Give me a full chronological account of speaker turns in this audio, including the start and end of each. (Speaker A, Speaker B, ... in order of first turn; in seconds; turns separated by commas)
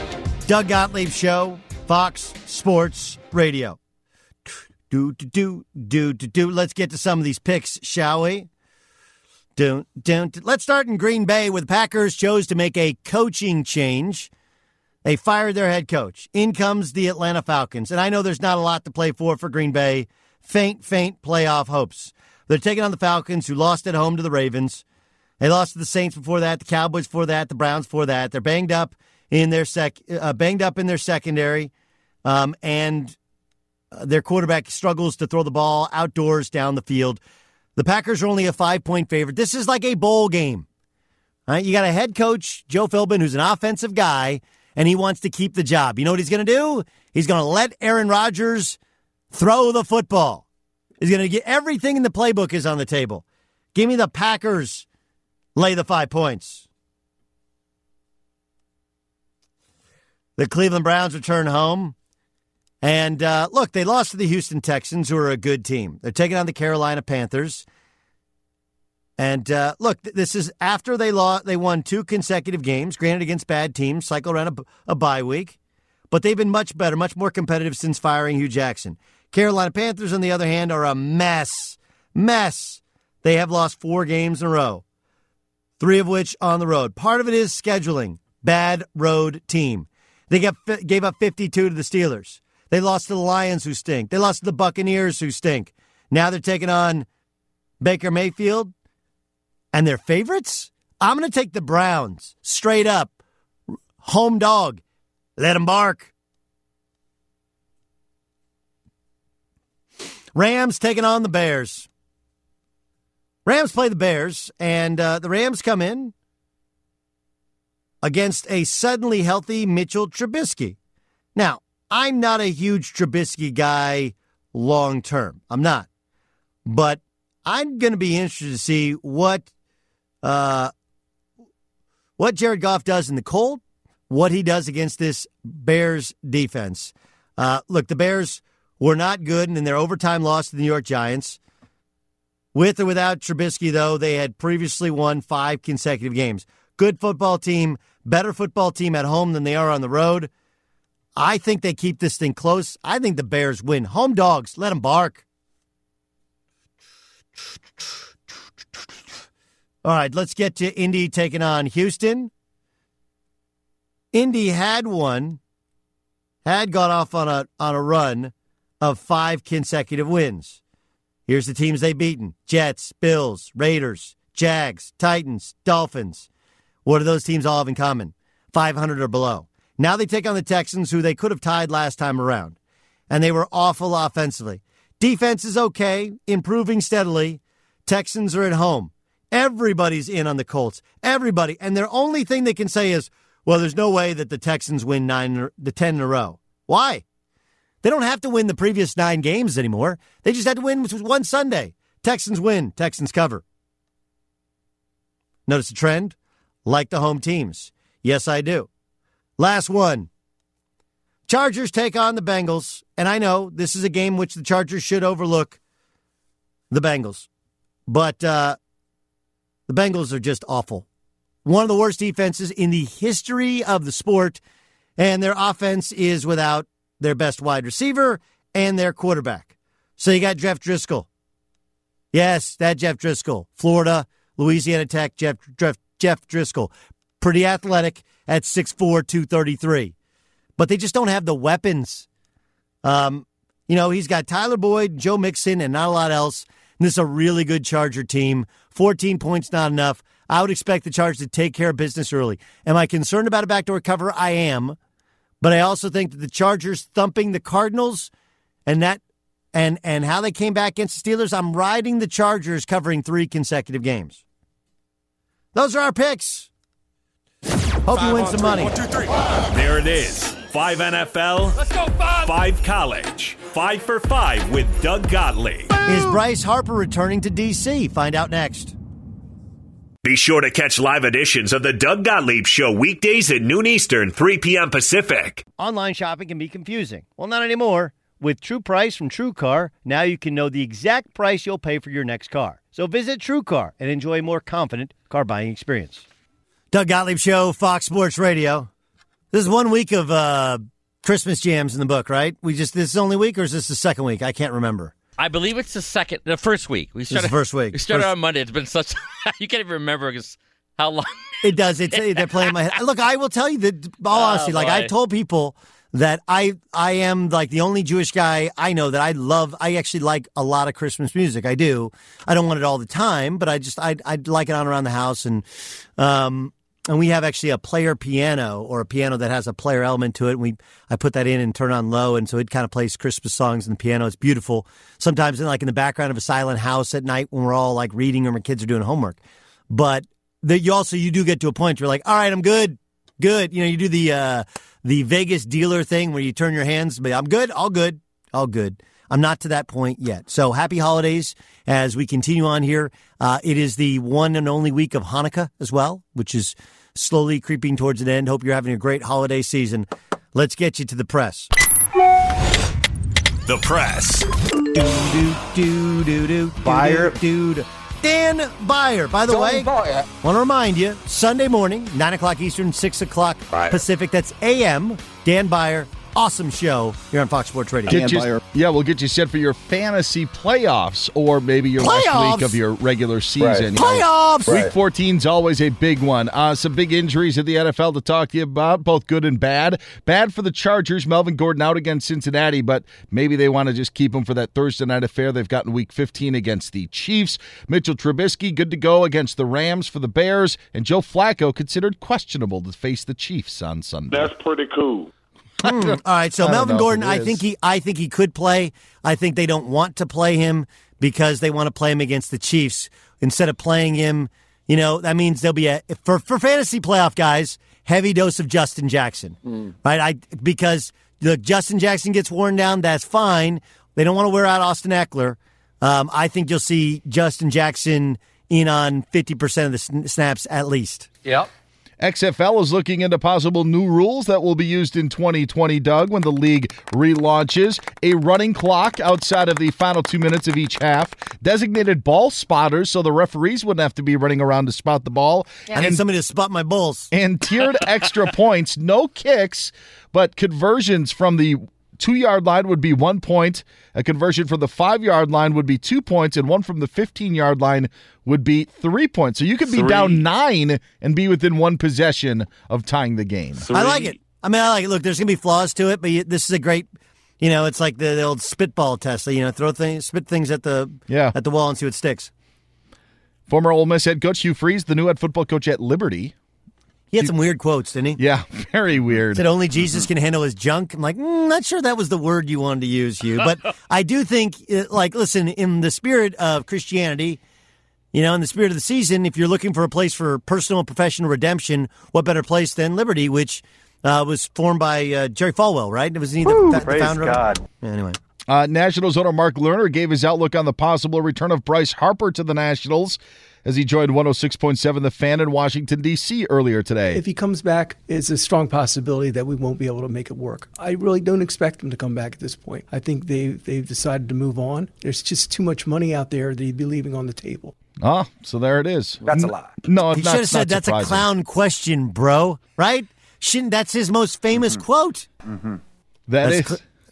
Speaker A: 0.5-3.8, Speaker A: 4.9-8.5, Speaker A: 9.6-14.3, Speaker A: 15.0-24.8, Speaker A: 25.4-31.7, Speaker A: 32.2-33.2, Speaker A: 33.9-37.2, Speaker A: 37.8-40.7, Speaker A: 41.5-48.8, Speaker A: 49.3-50.5, Speaker A: 51.0-54.9, Speaker A: 55.5-56.7, Speaker A: 60.4-62.0, Speaker A: 62.8-67.7, Speaker A: 69.2-75.6, Speaker A: 76.1-84.8, Speaker A: 85.8-97.1, Speaker A: 97.8-98.7, Speaker A: 99.7-103.2, Speaker A: 104.0-104.8, Speaker A: 105.4-106.1, Speaker A: 110.3-111.9, Speaker A: 113.5-116.1, Speaker A: 118.0-120.8, Speaker A: 121.3-125.9, Speaker A: 126.7-129.5, Speaker A: 130.2-130.7, Speaker A: 132.2-141.4, Speaker A: 142.5-150.3, Speaker A: 151.2-155.2, Speaker A: 159.8-162.3, Speaker A: 164.1-165.4, Speaker A: 166.4-170.6, Speaker A: 171.3-176.3, Speaker A: 176.8-182.6, Speaker A: 183.1-197.0, Speaker A: 197.8-203.4, Speaker A: 205.5-208.7, Speaker A: 209.4-210.1, Speaker A: 211.3-215.6, Speaker A: 216.7-217.3, Speaker A: 217.9-218.6, Speaker A: 219.7-220.9, Speaker A: 221.4-224.4, Speaker A: 225.0-231.1, Speaker A: 232.1-239.9, Speaker A: 240.6-242.1, Speaker A: 242.8-254.8, Speaker A: 255.4-258.1, Speaker A: 258.7-259.0, Speaker A: 259.5-264.2, Speaker A: 265.5-266.5, Speaker A: 267.9-268.8, Speaker B: 268.0-269.0, Speaker C: 269.6-271.6, Speaker C: 272.2-275.7, Speaker A: 275.8-278.8, Speaker C: 280.0-285.4, Speaker A: 285.6-296.1, Speaker A: 296.7-298.7, Speaker A: 299.3-304.9, Speaker D: 305.2-312.6, Speaker A: 307.1-308.1, Speaker A: 311.4-325.5, Speaker D: 314.1-314.9, Speaker A: 326.0-361.5, Speaker C: 363.5-364.2, Speaker A: 364.7-378.1, Speaker E: 377.9-404.4, Speaker A: 381.8-382.6, Speaker A: 383.7-384.6, Speaker B: 404.1-405.1, Speaker A: 405.6-431.1, Speaker E: 405.6-407.4, Speaker E: 432.0-446.0, Speaker A: 445.7-447.1, Speaker E: 447.1-464.0, Speaker A: 463.7-472.3, Speaker E: 471.1-471.4, Speaker E: 473.5-476.3, Speaker A: 477.1-478.2, Speaker E: 478.2-479.4, Speaker A: 479.3-487.4, Speaker A: 488.1-498.2, Speaker E: 498.5-507.2, Speaker F: 507.1-517.8, Speaker E: 518.0-521.3, Speaker A: 520.1-525.3, Speaker E: 526.3-526.8, Speaker A: 526.4-526.8